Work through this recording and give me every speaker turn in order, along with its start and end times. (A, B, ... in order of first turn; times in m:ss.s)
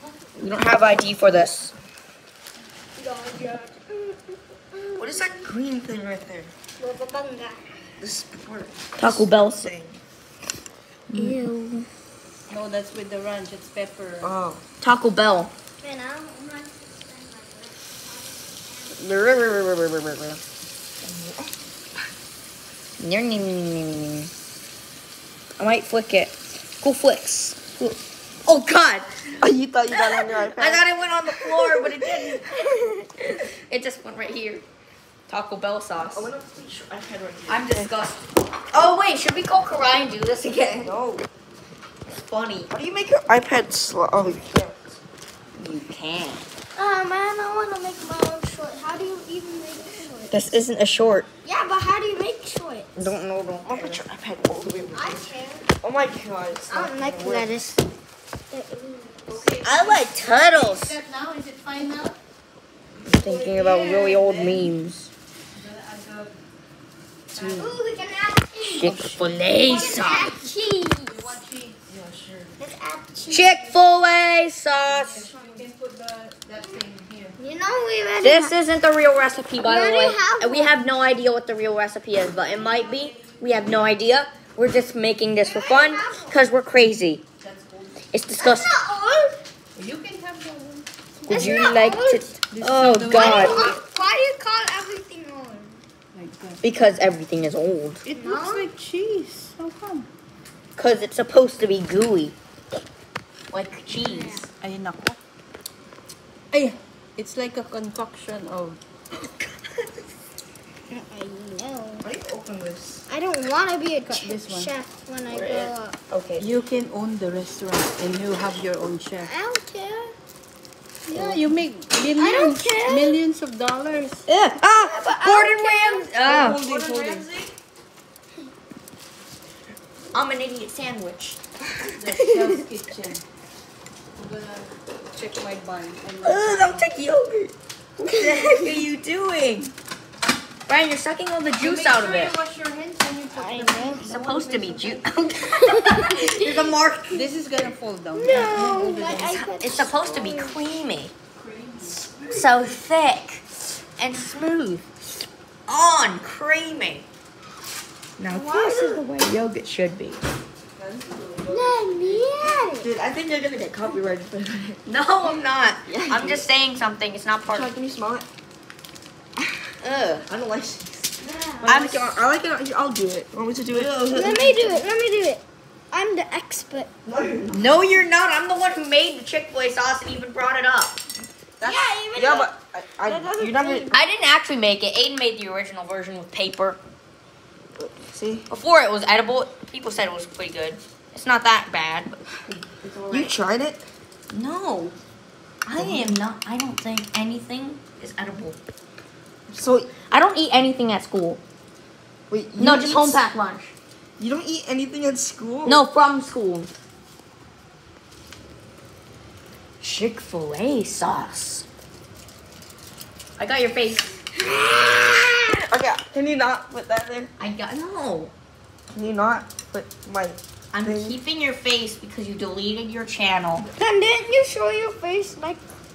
0:00.4-0:01.7 A
0:03.0-0:05.4 B
0:05.0-0:06.5 C
0:06.8-0:07.9 B
0:08.0-0:10.0 C
0:09.0-0:09.7 A
0:11.1-0:11.8 A
0:11.1-0:11.7 B
0:12.5-0:14.3 D
0:14.2-0:14.6 C
0:14.8-0:15.5 A
0:15.8-0:19.3 B
0:19.0-0:20.4 C
0:21.0-0:21.5 C
0:23.0-0:24.3 A
0:25.6-0:29.1 A
0:29.4-0:31.9 C
0:29.9-0:34.6 A
0:35.3-0:36.3 A
0:36.1-0:37.9 C
0:37.5-0:40.9 A
0:40.8-0:41.3 C
0:42.1-0:42.7 A
0:42.7-0:45.0 C
0:45.6-0:46.4 A
0:46.7-0:50.5 B
0:50.3-0:51.3 A
0:51.4-0:52.9 B
0:53.0-0:54.0 A
0:53.7-0:57.6 C
0:54.9-0:55.7 B
0:56.7-0:57.8 B
0:58.5-0:59.5 B
0:59.3-1:02.2 D
0:59.6-1:01.0 A
1:03.0-1:05.1 A
1:03.1-1:04.8 D
1:05.5-1:06.4 D
1:07.3-1:07.8 D
1:07.4-1:07.7 C
1:07.5-1:09.0 B
1:08.6-1:10.3 A
1:08.8-1:10.4 D
1:09.6-1:11.4 B
1:11.1-1:11.9 D
1:11.9-1:12.6 C
1:12.6-1:13.6 B
1:13.3-1:15.3 A
1:14.9-1:17.4 D
1:17.4-1:18.6 B
1:18.2-1:27.2 A
1:19.6-1:20.8 B
1:22.4-1:23.6 D
1:25.4-1:26.4 B
1:27.4-1:28.0 D
1:28.1-1:28.7 A
1:28.4-1:29.4 B
1:29.8-1:31.7 D
1:31.3-1:33.7 A
1:31.3-1:32.3 B
1:32.5-1:33.7 D
1:33.1-1:35.8 B
1:36.1-1:36.6 D
1:36.6-1:38.0 A
1:38.1-1:40.1 D
1:38.1-1:38.7 B
1:40.8-1:42.4 A
1:43.5-1:44.5 A
1:44.0-1:44.5 B
1:44.5-1:45.2 D
1:46.5-1:48.8 D
1:49.2-1:49.5 A
1:50.9-1:52.1 B
1:52.0-1:53.1 C
1:53.1-1:56.0 B
1:54.1-1:54.7 D
1:55.3-1:56.5 A
1:56.4-1:59.3 D
1:59.2-2:00.1 B
2:01.1-2:04.2 D
2:02.2-2:03.2 B
2:04.3-2:06.6 A
2:04.8-2:06.1 B
2:06.2-2:07.3 D
2:06.2-2:07.6 C
2:10.1-2:11.4 A
2:11.8-2:13.2 D
2:14.2-2:16.9 D
2:16.2-2:19.7 A
2:18.0-2:18.4 B
2:20.7-2:22.3 A
2:21.6-2:25.1 D
2:23.3-2:24.1 B
2:24.0-2:27.4 A
2:25.5-2:26.2 B
2:27.1-2:29.5 D
2:28.1-2:30.6 B
2:29.5-2:31.1 A
2:31.3-2:32.2 D
2:31.9-2:32.4 C
2:32.3-2:34.9 A
2:35.7-2:37.0 A
2:38.2-2:40.2 A
2:38.4-2:39.0 B
2:40.8-2:44.8 C
2:41.5-2:42.9 B
2:44.9-2:47.7 A
2:45.9-2:46.5 C
2:47.5-2:48.2 C
2:49.4-2:49.7 C
2:49.8-2:50.2 A
2:50.3-2:54.8 C
2:51.2-2:51.7 B
2:51.6-2:52.1 A
2:54.1-2:56.9 B
2:57.0-2:57.7 C
2:57.5-3:01.0 A
3:01.6-3:03.9 C
3:01.6-3:02.5 B
3:03.0-3:04.0 B
3:03.9-3:06.8 A
3:07.8-3:08.5 C
3:08.5-3:13.3 A
3:13.1-3:13.8 C
3:14.3-3:15.0 A
3:15.6-3:18.6 A
3:15.8-3:16.2 C
3:19.5-3:19.9 C
3:20.1-3:21.4 A
3:22.3-3:23.2 C
3:22.6-3:23.7 A
3:24.2-3:25.9 C
3:25.6-3:26.7 A
3:29.8-3:31.6 A
3:33.4-3:34.1 A
3:34.6-3:37.3 C
3:34.7-3:35.2 B
3:37.4-3:38.3 A
3:38.9-3:41.2 C
3:40.7-3:43.7 A
3:43.7-3:45.6 B